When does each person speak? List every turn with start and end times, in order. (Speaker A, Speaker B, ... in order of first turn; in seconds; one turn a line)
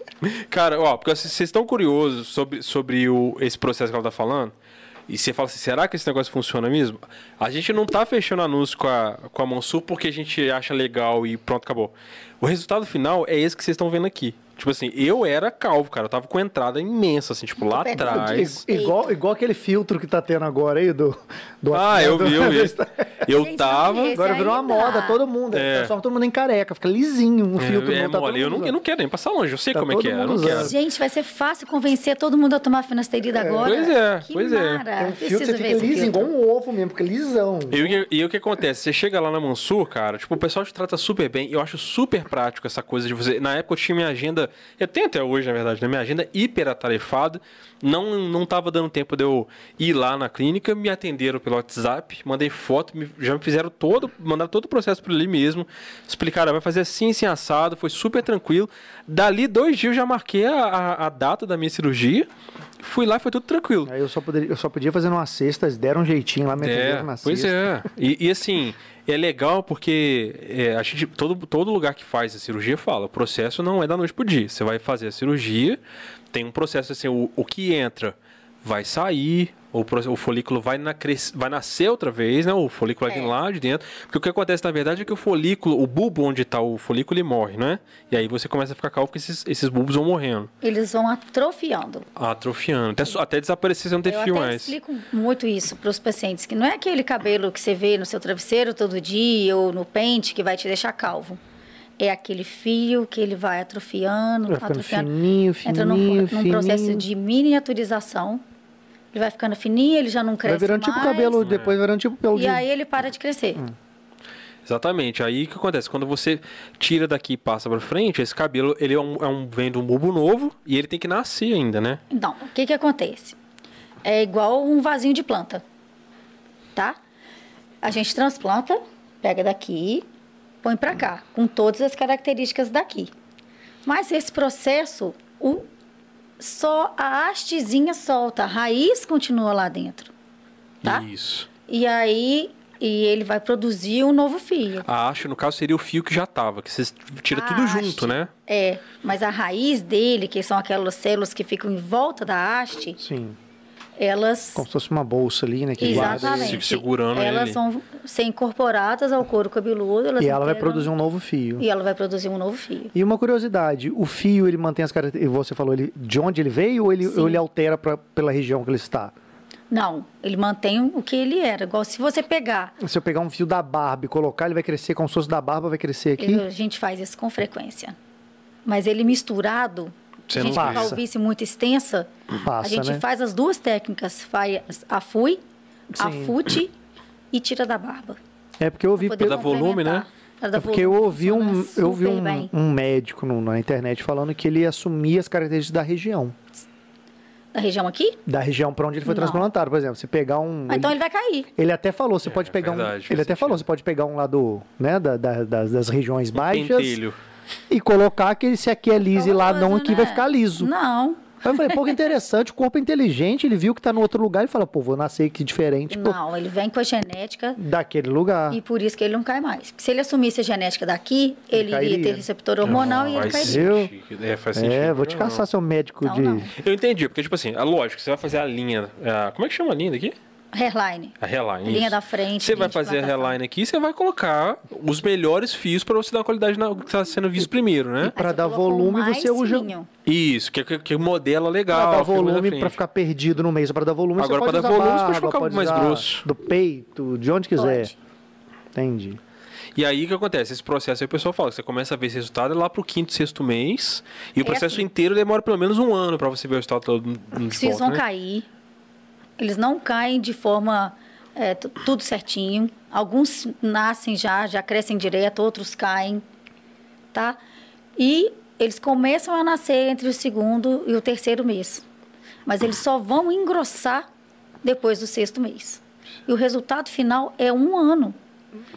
Speaker A: 0.2-4.5
Speaker A: 5.1-18.6
Speaker B: 17.6-19.1
Speaker C: 18.0-23.2
Speaker A: 21.7-24.2
Speaker B: 23.3-25.2
Speaker C: 24.1-28.8
Speaker A: 25.5-25.9
Speaker A: 27.6-30.7
Speaker C: 29.7-30.8
Speaker B: 30.5-36.3
Speaker C: 33.3-33.8
Speaker A: 33.6-34.8
Speaker C: 35.0-38.0
Speaker A: 37.7-62.3
Speaker A: 62.8-63.9
Speaker C: 63.9-67.8
Speaker A: 66.6-75.8
Speaker A: 76.3-90.5
Speaker B: 83.1-83.3
Speaker B: 90.6-92.1
Speaker A: 92.2-94.8
Speaker B: 94.1-101.4
Speaker B: 102.0-105.1
Speaker C: 104.5-107.1
Speaker B: 105.6-108.4
Speaker B: 109.1-111.4
Speaker C: 110.5-112.7
Speaker A: 111.4-111.8
Speaker B: 112.3-113.6
Speaker A: 114.7-122.0
Speaker B: 122.1-123.4
Speaker B: 124.0-125.6
Speaker B: 127.8-130.1
Speaker B: 130.6-133.1
Speaker B: 133.8-135.7
Speaker B: 136.4-140.1
Speaker A: 140.8-141.5
Speaker B: 141.7-144.9
Speaker A: 144.8-148.3
Speaker B: 147.3-153.0
Speaker C: 153.0-153.4
Speaker B: 154.0-154.7
Speaker C: 154.6-156.6
Speaker B: 155.8-160.9
Speaker A: 155.8-157.6
Speaker C: 160.2-161.7
Speaker B: 161.6-162.9
Speaker C: 162.9-169.1
Speaker B: 167.0-167.4
Speaker B: 169.7-172.8
Speaker C: 172.8-176.5
Speaker B: 176.2-178.0
Speaker B: 178.7-185.4
Speaker A: 180.3-181.0
Speaker C: 180.5-181.0
Speaker C: 182.4-183.0
Speaker C: 185.9-186.4
Speaker B: 186.0-186.8
Speaker B: 187.3-188.2
Speaker C: 188.6-189.6
Speaker B: 189.0-192.5
Speaker A: 189.2-190.1
Speaker C: 190.6-196.4
Speaker B: 197.5-198.2
Speaker C: 198.3-201.0
Speaker B: 199.1-199.4
Speaker B: 200.7-201.5
Speaker C: 201.6-207.0
Speaker A: 202.3-203.6
Speaker A: 206.3-207.2
Speaker C: 207.7-210.7
Speaker B: 209.2-211.9
Speaker C: 211.4-216.2
Speaker B: 215.9-217.6
Speaker C: 217.6-218.6
Speaker B: 218.5-223.6
Speaker C: 221.5-223.9
Speaker A: 222.6-225.4
Speaker C: 224.6-226.5
Speaker B: 226.0-226.5
Speaker A: 226.6-230.2
Speaker B: 230.5-233.4
Speaker A: 231.2-238.1
Speaker C: 238.0-239.7
Speaker B: 238.2-239.9
Speaker A: 240.1-242.8
Speaker C: 241.7-247.9
Speaker A: 244.2-246.2
Speaker B: 247.6-248.0
Speaker C: 248.7-249.2
Speaker A: 249.8-258.0
Speaker B: 254.4-254.9
Speaker B: 257.5-258.5
Speaker B: 259.4-266.2
Speaker B: 267.1-267.4
Speaker B: 268.0-271.9
Speaker B: 272.5-274.1
Speaker B: 274.6-278.2